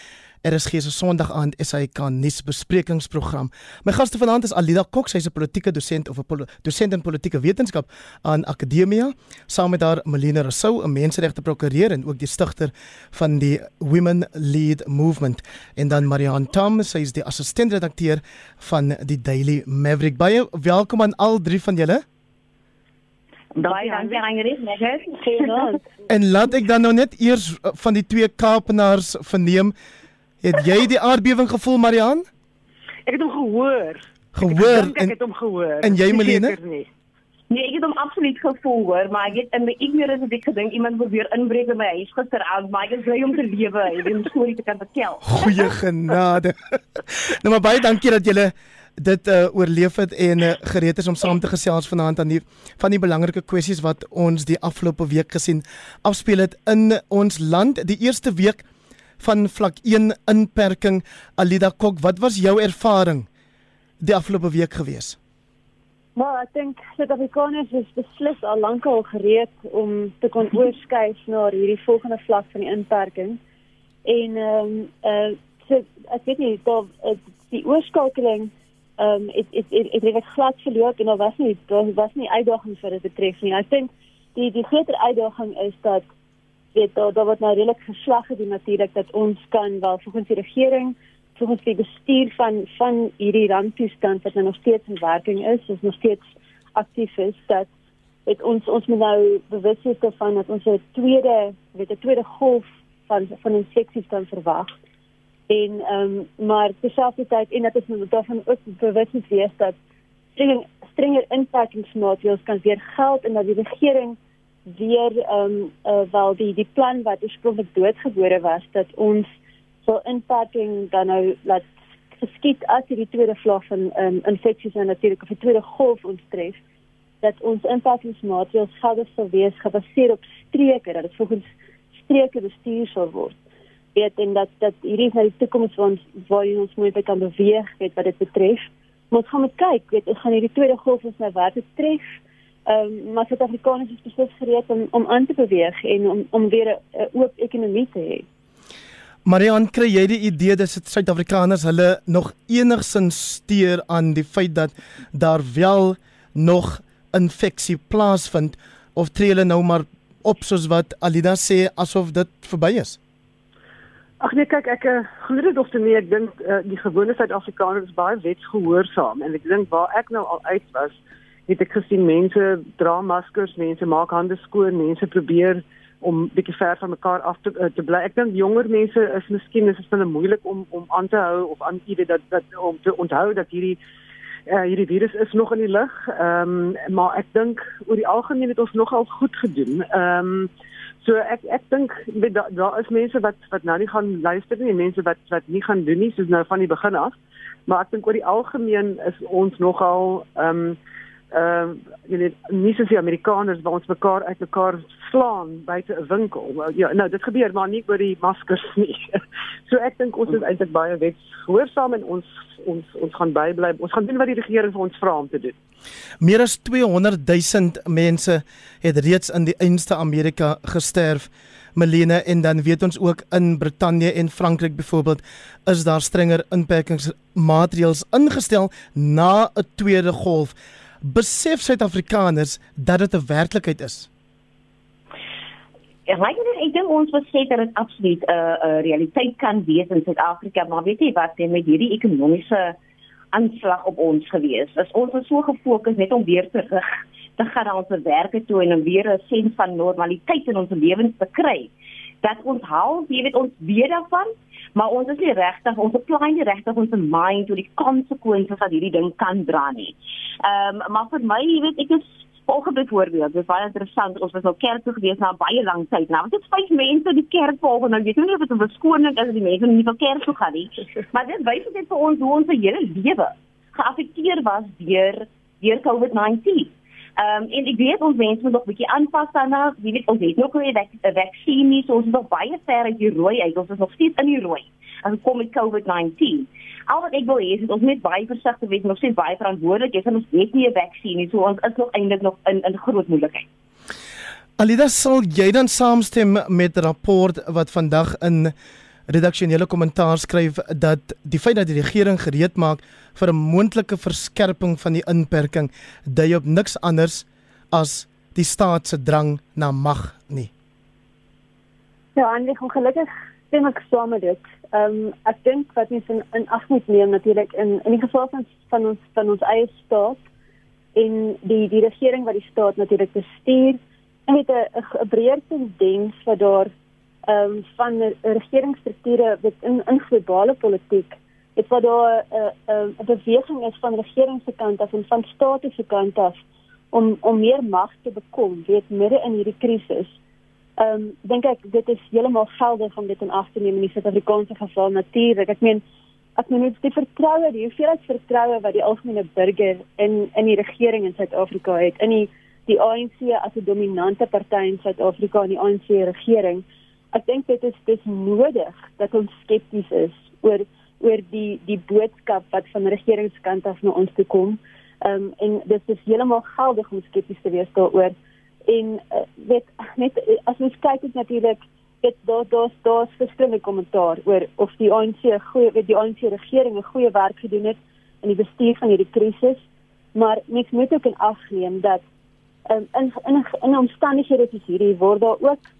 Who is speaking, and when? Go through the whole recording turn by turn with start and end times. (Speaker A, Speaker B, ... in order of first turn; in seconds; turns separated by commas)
Speaker A: 0.4-22.0, Speaker B: 23.5-25.7, Speaker C: 23.7-24.2, Speaker C: 25.2-25.8, Speaker A: 26.1-29.7, Speaker A: 30.4-32.2, Speaker D: 33.0-36.9, Speaker A: 34.3-35.1, Speaker A: 35.8-36.5, Speaker B: 37.5-45.5, Speaker A: 45.2-58.6, Speaker A: 59.2-63.3, Speaker A: 64.0-65.2, Speaker C: 66.2-73.4, Speaker C: 74.0-86.0, Speaker C: 86.7-96.2, Speaker C: 96.8-97.7, Speaker C: 98.3-104.7, Speaker C: 105.5-109.8, Speaker C: 110.4-119.3, Speaker C: 119.8-126.6, Speaker C: 127.2-133.4, Speaker C: 133.9-142.1, Speaker C: 142.7-148.2, Speaker A: 149.2-163.0, Speaker D: 164.2-183.8, Speaker D: 184.5-190.5, Speaker D: 191.0-197.1, Speaker D: 197.7-200.8, Speaker D: 201.3-215.6, Speaker A: 216.2-234.1, Speaker B: 236.1-242.8, Speaker B: 243.3-251.7, Speaker B: 252.2-293.4, Speaker A: 294.6-298.5, Speaker A: 299.1-310.5, Speaker C: 312.1-320.2, Speaker C: 320.9-326.7, Speaker C: 327.2-336.4, Speaker C: 336.9-340.2, Speaker C: 340.8-345.8, Speaker C: 346.4-368.1, Speaker C: 368.7-379.6, Speaker C: 380.1-382.0, Speaker C: 382.7-385.6